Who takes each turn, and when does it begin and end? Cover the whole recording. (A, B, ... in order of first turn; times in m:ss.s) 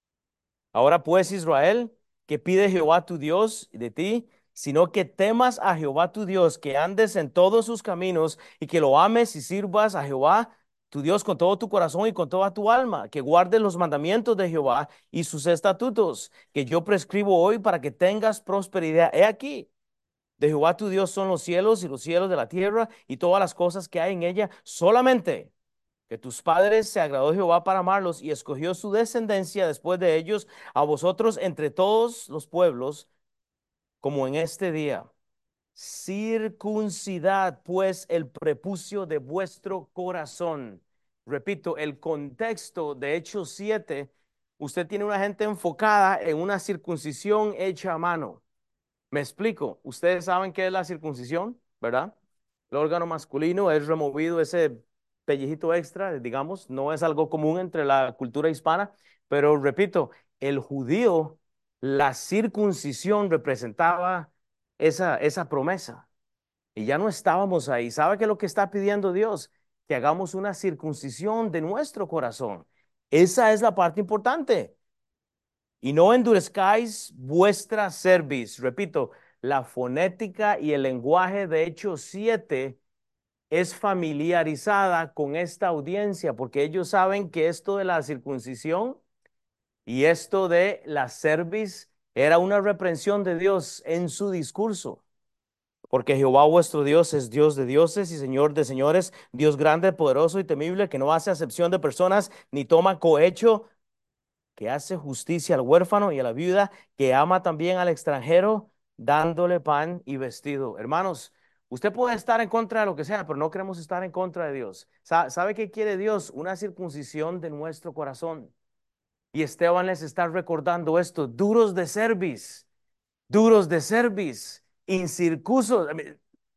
0:00.7-0:19.7 A
0:20.4-0:25.5 A
0:26.1-0:33.1 A
0:34.0-0:35.1 A
0:35.7-0:48.4 A
0:49.1-0:52.1 A
0:52.7-1:06.1 A
1:06.8-1:14.7 A
1:15.8-1:22.8 A
1:23.5-1:29.0 A
1:29.9-1:35.0 A
1:35.9-1:43.7 A
1:44.6-1:58.5 A
1:59.3-2:02.6 A
2:03.3-2:06.2 A